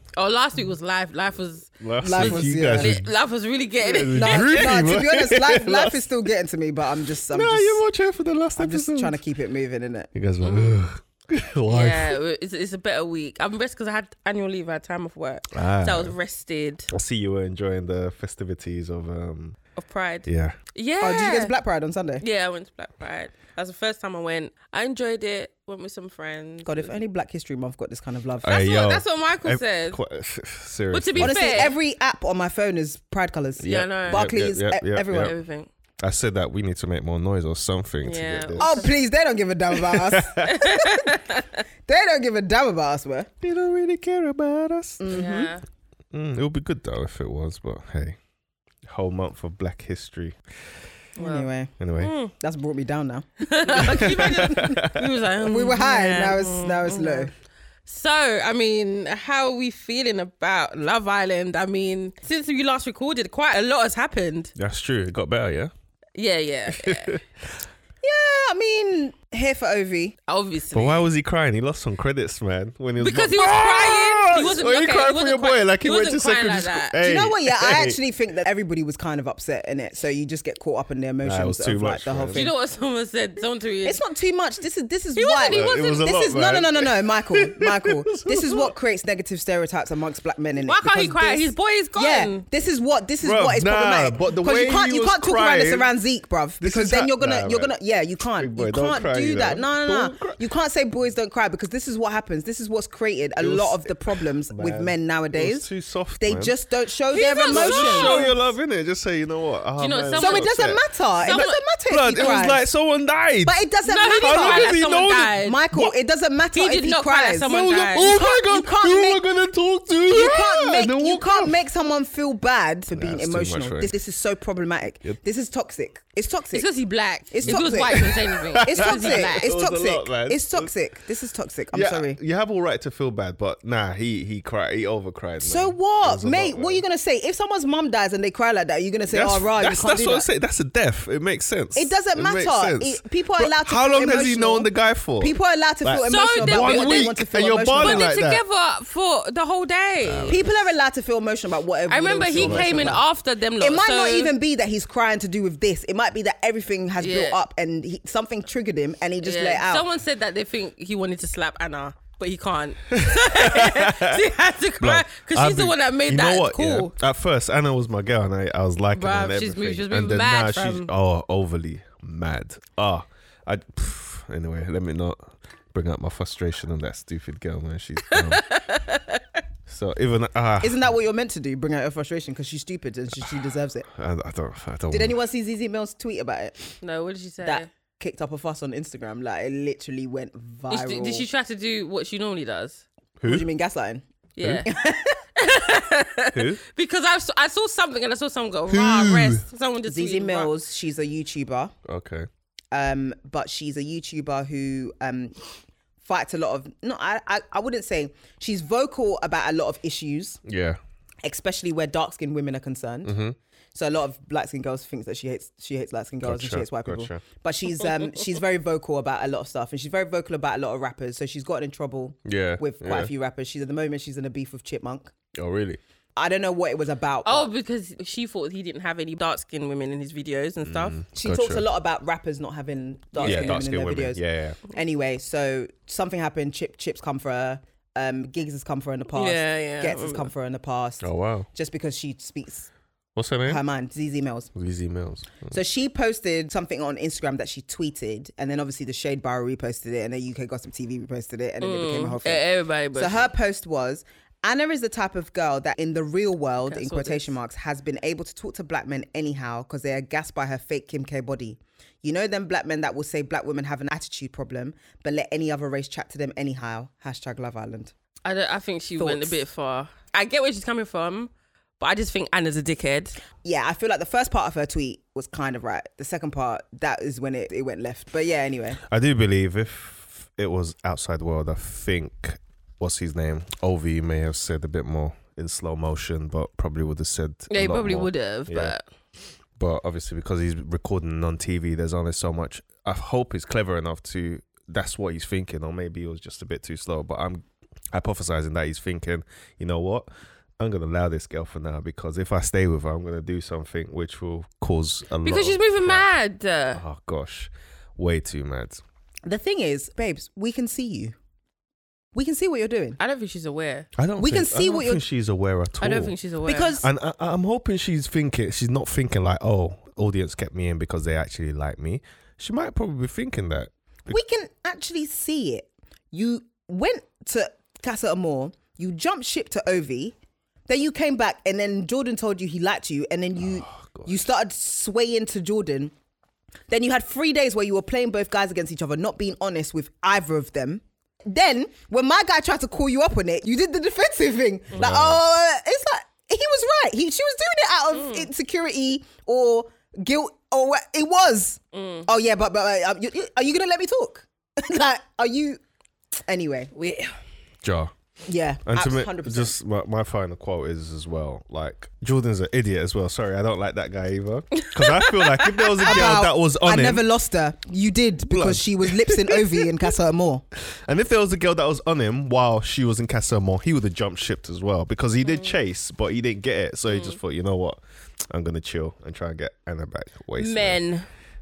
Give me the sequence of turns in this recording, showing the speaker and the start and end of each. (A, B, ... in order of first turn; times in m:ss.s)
0:00.2-0:04.8 A
0:01.8-0:03.1 B
0:02.0-0:03.0 C
0:03.8-0:06.1 B
0:04.1-0:07.8 C
0:07.3-0:09.2 B
0:08.6-0:10.1 C
0:10.1-0:12.2 B
0:10.4-0:10.8 A
0:11.7-0:16.9 A
0:15.5-0:16.2 B
0:16.9-0:19.6 B
0:19.8-0:21.5 A
0:20.3-0:20.6 B
0:21.0-0:22.2 C
0:22.2-0:26.9 A
0:26.7-0:28.6 C
0:28.4-0:31.7 B
0:28.5-0:30.0 A
0:30.9-0:31.7 A
0:31.2-0:35.4 C
0:33.6-0:35.3 B
0:33.6-0:34.3 A
0:35.2-0:35.7 A
0:36.0-0:38.9 B
0:38.0-0:38.9 A
0:38.6-0:41.0 C
0:39.7-0:40.6 B
0:40.4-0:41.6 A
0:41.9-0:43.3 C
0:43.4-0:45.2 B
0:45.0-0:45.5 C
0:45.1-0:45.6 A
0:46.1-0:48.2 B
0:48.9-0:50.4 B
0:51.2-0:51.8 C
0:51.2-0:52.3 A
0:51.8-0:52.1 B
0:52.3-0:54.8 C
0:53.5-0:57.3 A
0:53.8-0:55.0 B
0:55.4-0:57.3 C
0:57.9-1:04.5 A
1:04.6-1:05.7 B
1:06.2-1:07.2 A
1:06.7-1:07.2 B
1:08.0-1:10.2 C
1:10.3-1:11.1 A
1:10.7-1:18.0 B
1:13.0-1:17.0 A
1:17.0-1:22.5 C
1:21.2-1:22.5 B
1:22.3-1:24.0 A
1:23.8-1:45.7 C
1:25.2-1:26.0 A
1:25.4-1:28.8 B
1:30.6-1:32.4 A
1:33.2-1:35.9 B
1:36.6-1:37.8 B
1:38.4-1:40.4 B
1:43.4-1:46.6 B
1:46.2-1:48.3 C
1:47.1-1:48.3 A
1:47.4-1:53.6 B
1:49.8-1:50.5 A
1:50.2-1:52.7 C
1:51.2-1:51.6 A
1:53.4-1:54.8 C
1:53.8-1:55.6 A
1:54.1-1:55.9 B
1:55.4-1:59.2 C
1:56.5-1:58.1 A
1:57.5-2:01.6 B
2:00.1-2:06.7 C
2:02.9-2:04.0 B
2:06.5-2:09.5 A
2:07.3-2:12.2 C
2:07.4-2:10.7 B
2:11.7-2:16.8 B
2:15.4-2:20.3 C
2:19.1-2:28.4 B
2:21.8-2:28.1 C
2:26.0-2:27.2 A
2:27.8-2:30.4 A
2:30.0-2:30.6 B
2:30.3-2:33.0 C
2:31.9-2:34.3 A
2:32.4-2:33.0 B
2:33.6-2:39.9 C
2:37.0-2:37.4 A
2:39.2-2:46.9 A
2:42.9-2:44.2 B
2:44.8-2:58.4 B
2:49.0-2:50.9 A
2:58.1-2:59.2 A
2:59.7-3:00.8 B
3:00.6-3:03.9 C
3:03.9-3:05.2 B
3:04.9-3:06.8 C
3:06.8-3:07.7 A
3:07.4-3:11.3 C
3:10.7-3:12.8 A
3:13.2-3:13.5 B
3:13.2-3:14.0 C
3:14.4-3:14.7 A
3:14.4-3:14.7 B
3:14.6-3:15.2 C
3:15.4-3:20.5 A
3:16.3-3:16.6 B
3:18.7-3:19.4 B
3:19.9-3:21.7 C
3:21.9-3:22.3 B
3:22.7-3:25.4 C
3:26.0-3:30.4 C
3:30.4-3:30.8 B
3:31.2-3:33.2 C
3:33.0-3:33.4 B
3:33.7-3:45.1 C
3:36.2-3:37.2 B
3:42.3-3:43.1 B
3:45.4-3:45.8 B
3:46.2-3:47.5 C
3:47.2-3:51.0 A
3:50.6-3:51.6 B
3:51.2-4:02.7 C
3:53.2-3:53.6 A
3:53.2-3:54.6 B
3:59.1-4:00.3 A
4:01.0-4:01.5 B
4:03.2-4:03.6 B
4:03.5-4:04.5 C
4:04.5-4:05.6 B
4:05.5-4:27.9 C
4:11.6-4:13.3 A
4:16.7-4:17.3 A
4:28.2-4:33.2 A
4:29.0-4:29.4 C
4:33.4-4:38.8 C
4:38.9-4:48.8 B
4:47.5-4:48.8 A
4:49.6-5:00.1 B
5:00.6-5:06.1 B
5:05.2-5:06.8 A
5:06.7-5:08.8 B
5:09.3-5:11.2 C
5:12.1-5:13.0 C
5:13.0-5:13.9 A
5:14.0-5:16.1 B
5:14.2-5:15.0 C
5:15.8-5:16.8 A
5:16.4-5:16.9 C
5:16.8-5:24.2 B
5:24.1-5:30.2 C
5:30.7-5:35.9 C
5:33.4-5:34.2 B
5:36.7-5:55.6 C
5:44.8-5:45.2 B
5:47.9-5:48.3 A
5:51.7-5:52.1 A
5:56.3-5:56.7 C
5:56.8-5:57.2 A
5:57.6-5:57.9 B
5:58.3-5:59.6 C
5:58.7-6:07.0 B
6:04.6-6:05.9 A
6:05.8-6:10.5 C
6:08.3-6:09.5 B
6:10.7-6:20.8 B
6:15.2-6:15.6 A
6:16.9-6:17.2 A
6:20.4-6:21.1 A